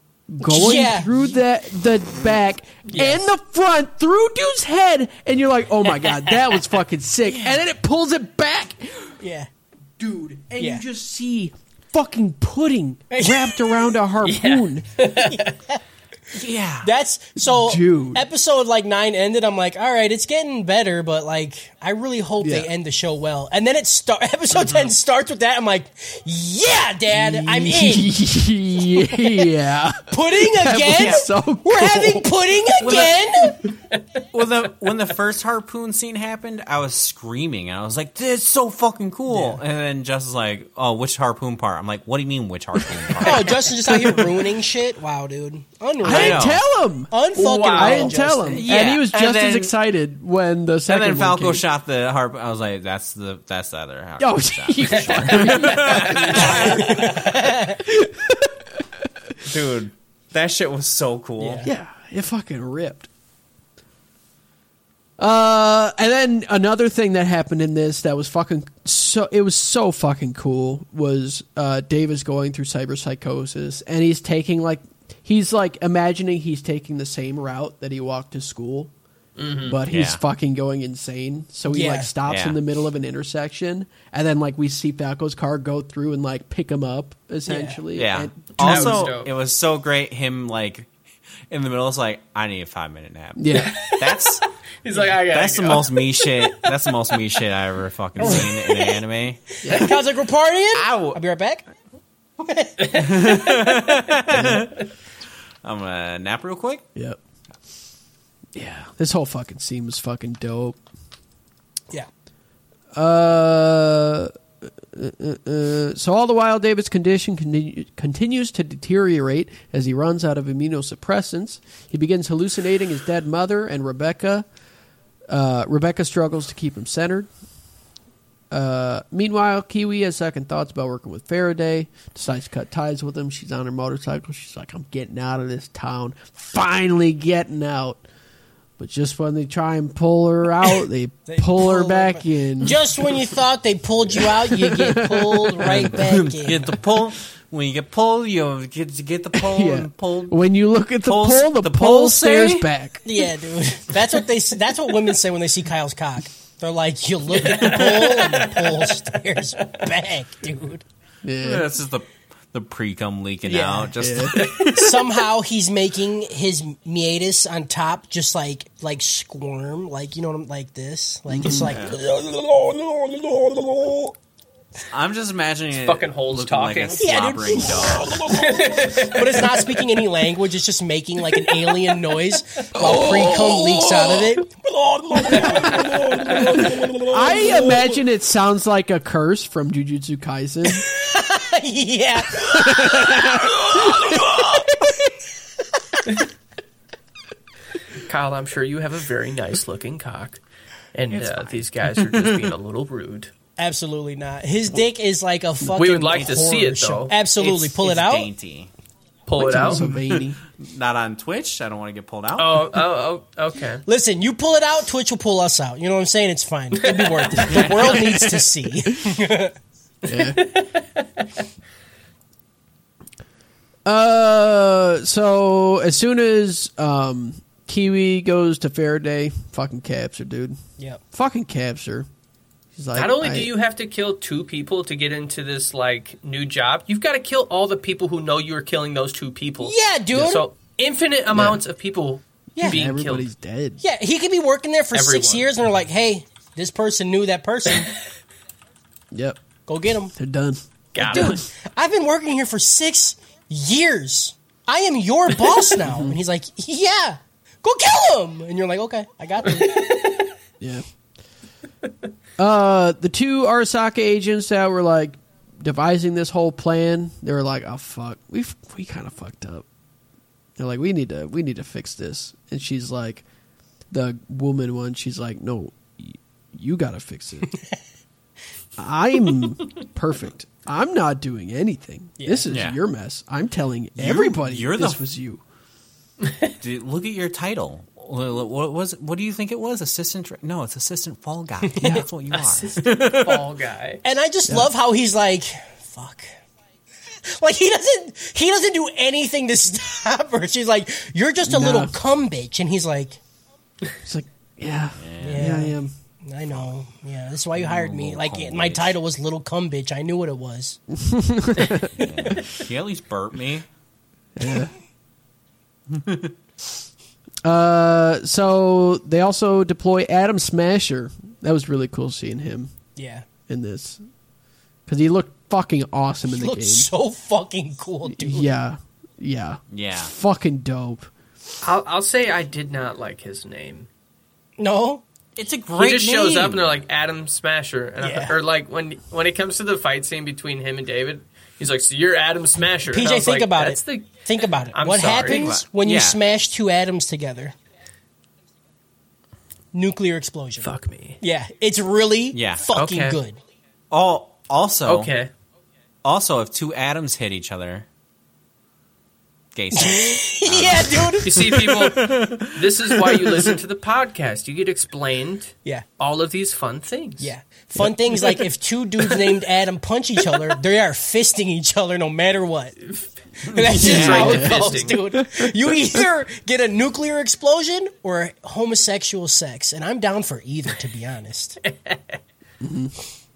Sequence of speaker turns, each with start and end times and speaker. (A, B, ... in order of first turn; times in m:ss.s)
0:00.3-0:09.2 A
0:00.4-0:01.3 B
0:02.9-0:03.2 C
0:09.2-0:09.5 B
0:10.0-0:14.9 A
0:10.6-0:10.8 B
0:13.1-0:13.7 B
0:14.2-0:15.5 C
0:15.2-0:15.8 B
0:16.3-0:16.9 D
0:16.8-0:28.2 B
0:17.4-0:18.2 A
0:22.4-0:22.7 A
0:27.1-0:32.3 A
0:30.1-0:33.6 B
0:32.8-0:33.3 D
0:34.3-0:43.8 D
0:39.3-0:39.6 B
0:43.2-0:46.5 B
0:43.9-0:44.4 A
0:46.0-0:47.1 A
0:46.0-0:46.6 D
0:47.1-0:48.7 B
0:47.4-0:48.2 C
0:47.7-0:51.6 A
0:48.5-0:49.8 D
0:50.9-0:56.7 D
0:54.2-0:58.8 A
0:56.0-0:57.8 B
0:56.5-0:56.7 C
0:59.4-1:01.6 D
1:01.4-1:01.7 B
1:01.6-1:03.1 A
1:05.2-1:18.9 A
1:19.4-1:19.8 C
1:19.6-1:29.1 A
1:19.9-1:20.2 D
1:21.7-1:22.1 B
1:22.3-1:22.6 D
1:27.5-1:27.8 B
1:28.0-1:30.9 D
1:28.6-1:29.3 C
1:31.5-1:34.5 D
1:33.4-1:33.8 A
1:33.5-1:36.6 C
1:35.1-1:39.6 D
1:38.2-1:38.9 B
1:39.6-1:41.6 B
1:39.6-1:40.0 A
1:40.7-1:41.2 D
1:42.4-1:43.4 B
1:42.9-1:44.8 D
1:44.3-1:44.7 A
1:45.6-1:46.9 D
1:48.6-1:50.8 A
1:52.9-2:04.5 A
2:05.3-2:07.3 A
2:08.5-2:18.0 A
2:18.8-2:22.8 A
2:21.3-2:26.8 B
2:24.2-2:25.9 A
2:25.7-2:30.4 D
2:29.4-2:33.0 A
2:31.0-2:32.7 D
2:33.0-2:40.8 B
2:37.5-2:38.7 C
2:41.2-2:41.7 A
2:41.4-2:44.8 D
2:43.4-2:54.0 B
2:44.0-2:44.5 A
2:44.5-2:44.8 C
2:51.3-2:51.8 A
2:51.7-2:52.0 D
2:54.9-2:58.4 D
2:55.8-2:57.6 C
2:57.0-3:07.6 B
2:58.3-2:59.6 C
3:02.8-3:03.7 A
3:05.2-3:06.0 A
3:05.3-3:05.8 C
3:07.1-3:10.9 A
3:10.7-3:14.8 B
3:12.4-3:14.4 A
3:18.0-3:20.4 C
3:20.9-3:23.3 C
3:21.1-3:22.5 D
3:23.6-3:28.3 B
3:25.8-3:27.2 C
3:27.4-3:28.7 D
3:29.3-3:29.8 C
3:29.4-3:30.4 A
3:29.6-3:32.8 D
3:32.4-3:33.8 C
3:33.9-3:39.6 B
3:36.8-3:37.7 C
3:37.5-3:38.1 D
3:40.0-3:40.4 A
3:40.1-3:40.8 C
3:43.8-3:50.6 A
3:51.1-3:52.1 A
3:52.8-3:53.5 A
3:53.0-4:03.3 C
3:59.6-4:00.5 B
4:01.3-4:01.6 A
4:02.6-4:02.9 B
4:02.6-4:03.8 A
4:03.8-4:07.9 B
4:04.9-4:05.5 C
4:09.1-4:09.4 A
4:09.7-4:10.1 B
4:10.1-4:11.4 A
4:10.9-4:11.4 C
4:11.1-4:20.1 B
4:15.8-4:16.2 A
4:19.6-4:20.0 C
4:22.4-4:29.7 A
4:30.6-4:33.2 A
4:33.9-4:37.6 A
4:38.8-4:45.4 A
4:42.2-4:42.5 B
4:42.5-4:42.8 D
4:44.0-4:45.0 D
4:46.6-4:53.5 D
4:51.7-4:52.0 B
4:52.3-4:54.0 C
4:54.0-4:56.3 B
4:57.2-5:03.2 B
5:01.4-5:02.0 A
5:04.0-5:05.9 A
5:05.0-5:05.6 D
5:05.2-5:10.8 B
5:07.6-5:09.0 D
5:10.9-5:12.4 A
5:12.0-5:13.7 D
5:14.4-5:14.7 A
5:15.9-5:16.3 D
5:17.4-5:22.7 A
5:23.0-5:23.3 B
5:23.5-5:24.0 A
5:24.9-5:26.9 A
5:26.3-5:28.5 B
5:28.1-5:31.1 A
5:29.7-5:30.1 D
5:31.6-5:33.9 C
5:34.6-5:35.0 B
5:35.4-5:36.8 D
5:35.8-5:45.5 C
5:38.0-5:38.4 B
5:42.9-5:47.6 B
5:45.2-5:46.2 D
5:49.7-5:53.4 B
5:50.6-5:51.2 C
5:52.3-5:52.6 D
5:52.7-5:53.2 C
5:53.9-5:55.1 D
5:54.9-5:55.3 C
5:56.0-5:57.9 D
5:59.5-6:03.6 D
5:59.7-6:01.3 B
6:01.2-6:07.3 C
6:07.2-6:12.8 B
6:07.8-6:08.2 A
6:12.9-6:15.0 C
6:13.4-6:21.6 B
6:13.6-6:14.5 D
6:13.8-6:16.0 A
6:22.6-6:23.0 A